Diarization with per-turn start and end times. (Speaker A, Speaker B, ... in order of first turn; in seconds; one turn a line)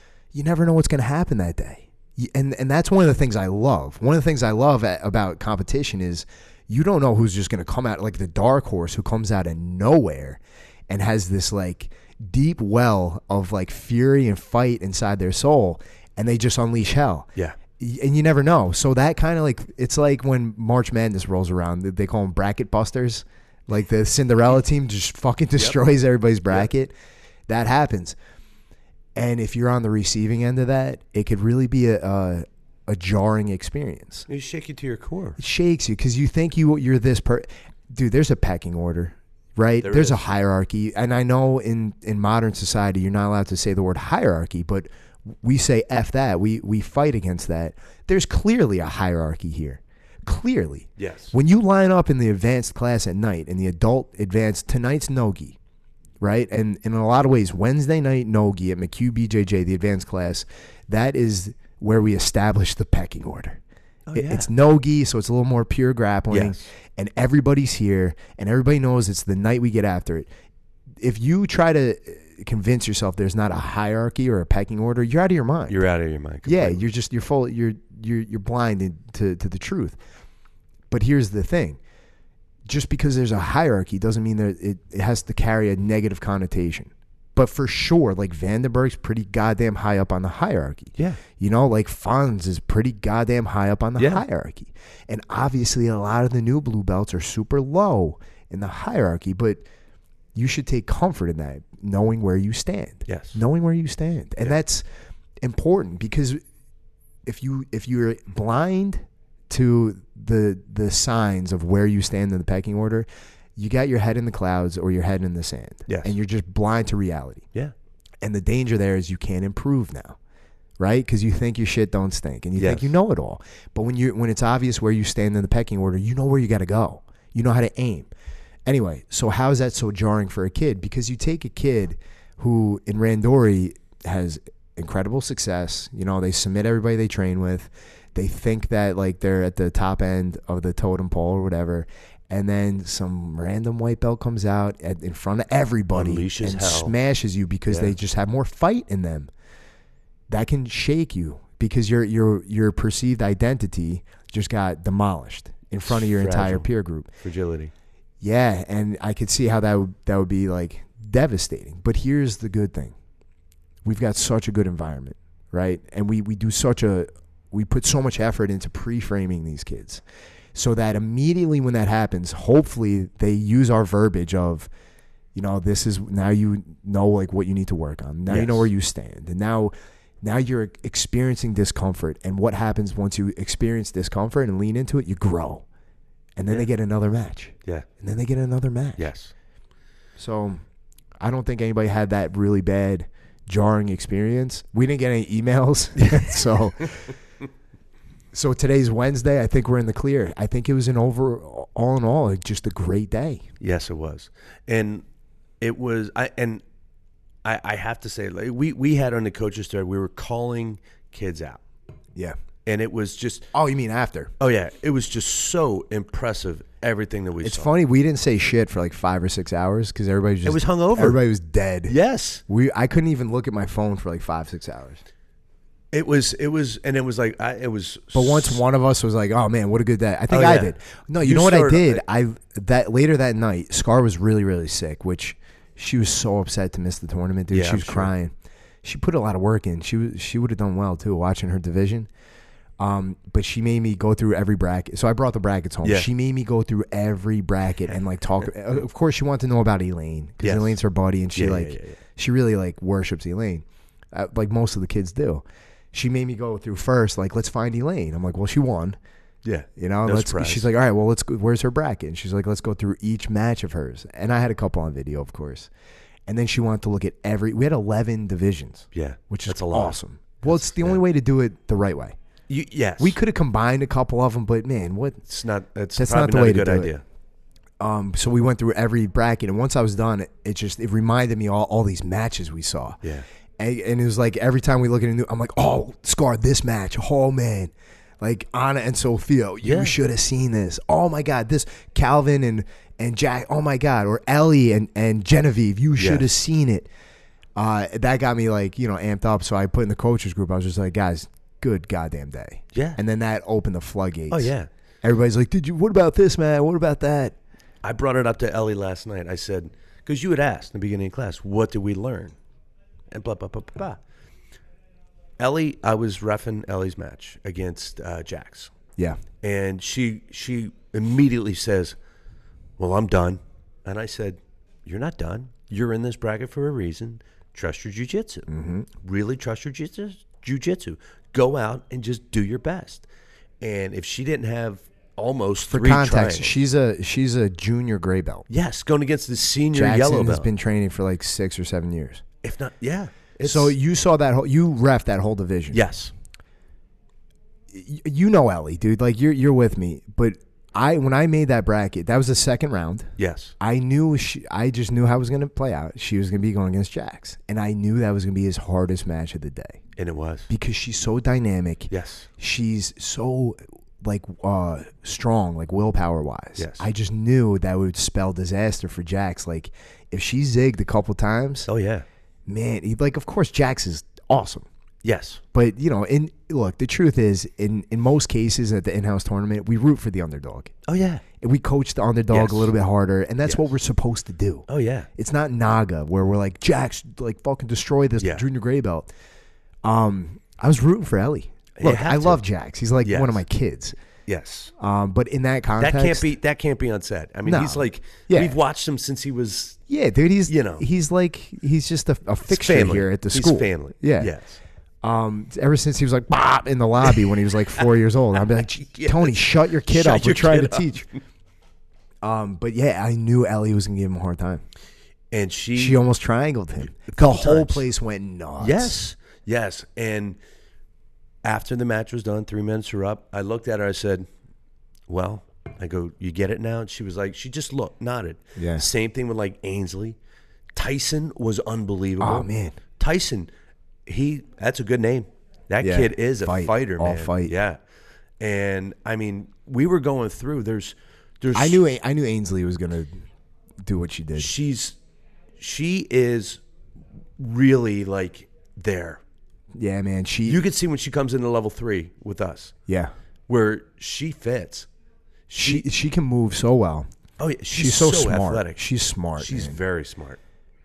Speaker A: 0.3-26.9
Speaker A: 27.5-28.2
Speaker A: 29.1-34.3
Speaker B: 34.3-35.4
Speaker A: 35.4-55.6
Speaker B: 39.8-40.2
Speaker B: 51.0-51.3
Speaker A: 56.2-63.6
Speaker B: 64.1-64.5
Speaker A: 64.1-70.3
Speaker B: 66.3-66.6
Speaker A: 71.0-75.8
Speaker B: 75.7-76.8
Speaker A: 76.4-80.0
Speaker A: 80.9-81.8
Speaker A: 82.7-99.6
Speaker B: 94.0-94.2
Speaker A: 100.3-104.8
Speaker B: 103.1-103.4
Speaker A: 105.4-106.4
Speaker A: 107.2-117.5
Speaker B: 115.9-116.2
Speaker A: 118.2-120.2
Speaker A: 120.8-128.1
Speaker B: 122.6-122.9
Speaker A: 128.7-149.3
Speaker B: 145.9-146.9
Speaker B: 147.7-148.0
Speaker A: 150.3-157.1
Speaker B: 155.9-156.7
Speaker B: 157.2-157.7
Speaker A: 158.2-162.9
Speaker A: 163.8-170.0
Speaker A: 170.5-174.7
Speaker A: 175.3-185.6
Speaker B: 178.3-178.7
Speaker A: 186.3-189.1
Speaker B: 189.0-189.3
Speaker A: 190.2-190.6
Speaker A: 191.2-197.1
Speaker B: 196.0-196.3
Speaker A: 198.3-203.5
Speaker B: 203.6-205.0
Speaker B: 205.6-206.6
Speaker B: 207.4-211.6
Speaker B: 212.6-213.5
Speaker A: 213.5-214.3
Speaker B: 214.4-217.7
Speaker A: 217.4-221.9
Speaker B: 220.4-221.2
Speaker B: 221.9-222.4
Speaker A: 222.5-225.0
Speaker B: 225.9-228.6
Speaker A: 228.1-242.1
Speaker B: 230.3-232.0
Speaker B: 237.5-238.1
Speaker A: 242.8-259.0
Speaker B: 245.8-246.1
Speaker B: 250.4-250.8
Speaker B: 251.3-252.0
Speaker B: 259.4-260.7
Speaker A: 259.8-265.7
Speaker A: 266.3-272.1
Speaker B: 268.9-271.0
Speaker B: 272.5-273.2
Speaker A: 273.0-275.2
Speaker B: 275.3-277.0
Speaker A: 275.9-276.9
Speaker A: 277.8-283.0
Speaker A: 283.6-296.9
Speaker B: 289.6-290.0
Speaker B: 296.0-296.2
Speaker A: 297.6-307.3
Speaker B: 302.7-303.0
Speaker B: 304.3-304.7
Speaker B: 307.8-312.3
Speaker B: 313.1-314.0
Speaker B: 315.4-318.7
Speaker B: 319.4-321.9
Speaker B: 322.8-328.5
Speaker A: 328.5-328.9
Speaker B: 329.0-333.1
Speaker B: 333.6-336.6
Speaker A: 335.6-338.5
Speaker B: 338.5-340.5
Speaker A: 339.7-342.2
Speaker B: 342.4-343.8
Speaker A: 343.4-345.8
Speaker B: 345.7-346.1
Speaker A: 347.7-359.8
Speaker B: 353.2-353.5
Speaker B: 360.0-360.5
Speaker A: 360.5-371.7
Speaker B: 361.9-362.3
Speaker B: 366.6-366.9
Speaker B: 371.7-372.1
Speaker A: 372.5-374.6
Speaker B: 375.0-375.4
Speaker A: 375.5-380.7
Speaker B: 380.9-381.2
Speaker A: 381.4-389.1
Speaker B: 382.3-382.7
Speaker B: 383.4-383.7
Speaker B: 384.7-385.1
Speaker B: 388.2-388.4
Speaker A: 389.8-393.9
Speaker B: 391.8-392.4
Speaker B: 393.0-393.4
Speaker B: 394.3-394.7
Speaker A: 394.8-396.3
Speaker B: 395.8-399.8
Speaker A: 397.4-398.6
Speaker A: 399.9-404.3
Speaker B: 400.5-400.8
Speaker B: 402.4-404.6
Speaker A: 405.0-411.1
Speaker B: 408.5-410.9
Speaker A: 412.2-414.6
Speaker B: 415.3-416.0
Speaker A: 415.8-419.0
Speaker B: 417.1-417.9
Speaker B: 418.6-420.4
Speaker B: 421.4-424.2
Speaker B: 425.1-430.2
Speaker A: 428.6-428.9
Speaker B: 430.7-433.5
Speaker A: 432.2-432.8
Speaker B: 434.1-437.8
Speaker A: 435.8-437.5
Speaker B: 438.4-441.8
Speaker A: 441.5-443.1
Speaker A: 443.8-444.5
Speaker B: 444.4-445.0
Speaker B: 445.6-446.6
Speaker B: 447.4-449.2
Speaker A: 449.7-450.6
Speaker B: 450.4-452.7
Speaker A: 452.9-453.1
Speaker B: 453.5-454.9
Speaker B: 455.5-455.9
Speaker A: 455.5-457.1
Speaker B: 457.4-458.8
Speaker A: 457.7-459.8
Speaker B: 459.4-460.4